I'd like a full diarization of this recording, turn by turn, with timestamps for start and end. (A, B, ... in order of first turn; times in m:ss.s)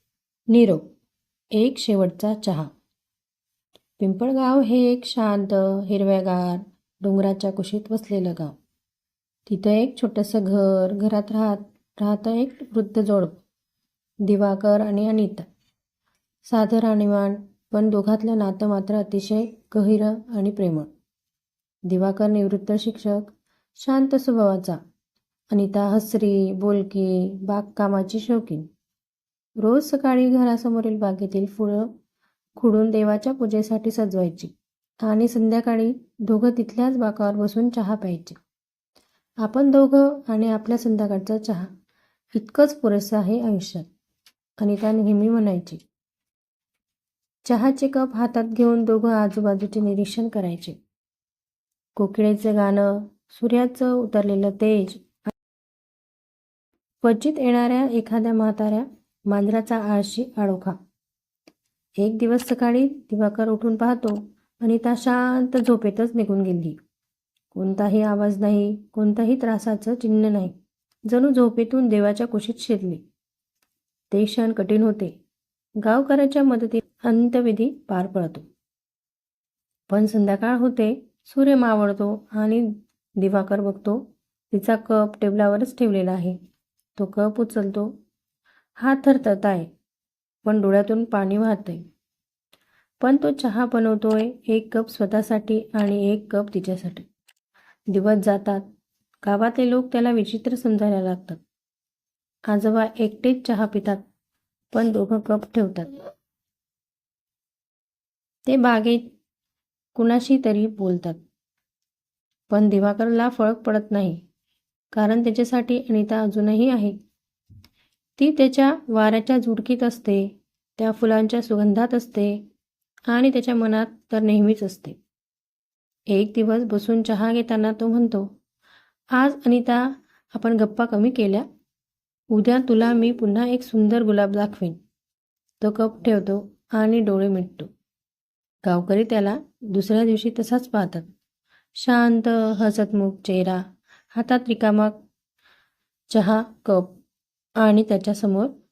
0:00.5-0:00.8 A
0:01.5-0:02.7 A
0:04.0-0:08.5 A
0:09.5-0:13.4 A
0:14.2-0:15.4 A
0:16.4-0:20.9 A
0:21.9-0:24.8 A
0:25.5-0:28.6 A
0:29.6-0:31.9 A
0:32.6-0:38.4 A
0:39.4-0:41.7 A
0:42.3-0:43.9 A
0:44.6-0:45.8 A
0:47.4-0:50.8 A
0:52.0-0:55.3 A
0:57.0-1:00.8 A
1:02.0-1:06.8 A
1:07.5-1:10.5 A
1:11.1-1:13.0 A
1:14.1-1:15.1 A
1:15.8-1:18.5 A
1:19.9-1:26.4 A
1:27.0-1:27.9 A
1:28.8-1:29.7 A
1:30.4-1:31.8 A
1:33.0-1:37.0 A
1:37.9-1:38.6 A
1:39.2-1:41.4 A
1:42.5-1:44.0 A
1:44.7-1:45.9 A
1:48.4-1:49.1 A
1:49.9-1:51.2 A
1:52.5-1:54.2 A
1:54.9-1:57.0 A
1:58.2-2:02.4 A
2:03.1-2:05.0 A
2:06.1-2:08.3 A
2:09.1-2:11.4 A
2:12.3-2:14.8 A
2:15.6-2:17.7 A
2:18.6-2:21.1 A
2:21.8-2:23.6 A
2:24.1-2:25.0 A
2:26.1-2:27.0 A
2:27.6-2:28.5 A